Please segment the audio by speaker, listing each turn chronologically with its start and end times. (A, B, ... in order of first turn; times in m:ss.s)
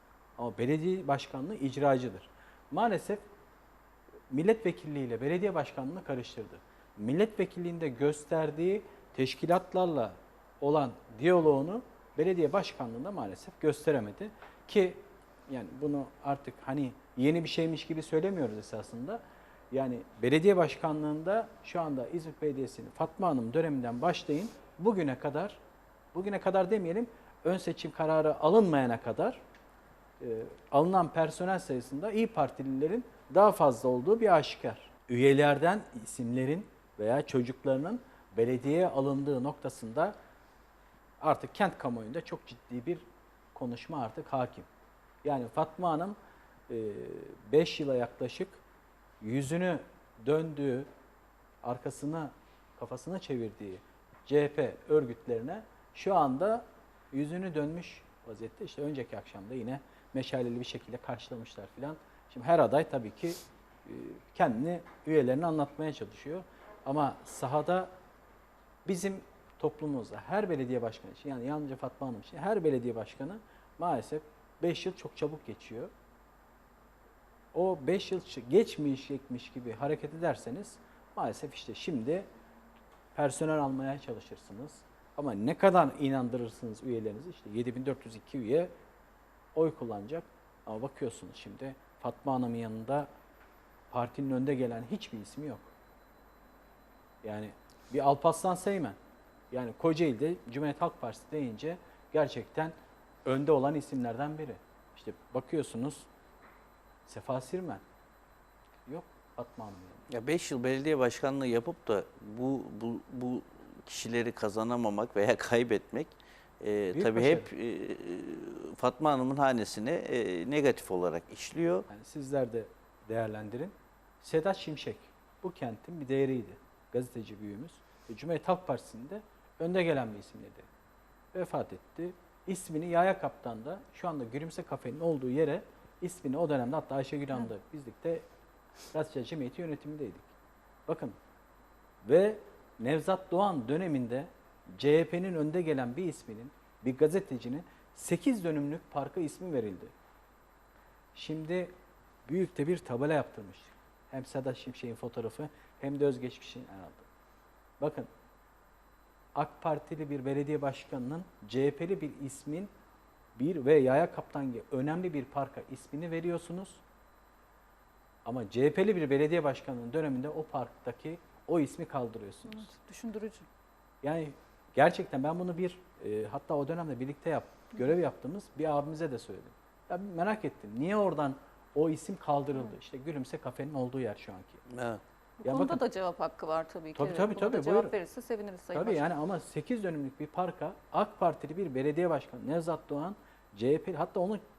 0:00.4-0:03.2 A
0:04.3-0:19.2 A
0:19.7-0:25.6 A
0:26.1-0:29.4 A
0:30.2-0:40.1 A
0:41.2-0:44.7 A
0:45.2-0:46.2 A
0:46.7-0:48.6 A
0:49.2-0:50.9 A
0:51.6-1:07.9 A
1:08.8-1:15.9 A
1:17.5-1:22.2 A
1:23.1-1:28.7 A
1:29.6-1:33.1 A
1:33.9-1:35.7 A
1:37.2-1:39.0 A
1:39.5-1:46.1 A
1:47.0-1:47.8 A
1:48.9-1:50.1 A
1:50.1-2:01.9 B
1:56.9-1:57.5 A
2:01.9-2:10.7 A
2:11.3-2:18.2 A
2:18.9-2:20.3 A
2:20.9-2:21.2 A
2:22.0-2:29.9 A
2:31.1-2:31.7 A
2:32.3-2:37.1 A
2:37.8-2:38.1 A
2:39.3-2:42.7 A
2:43.4-2:46.8 A
2:48.2-2:52.7 A
2:52.6-2:53.5 C
2:54.0-3:04.6 A
3:04.7-3:05.0 B
3:05.4-3:09.0 C
3:05.4-3:05.8 A
3:06.9-3:07.9 A
3:08.7-3:14.4 A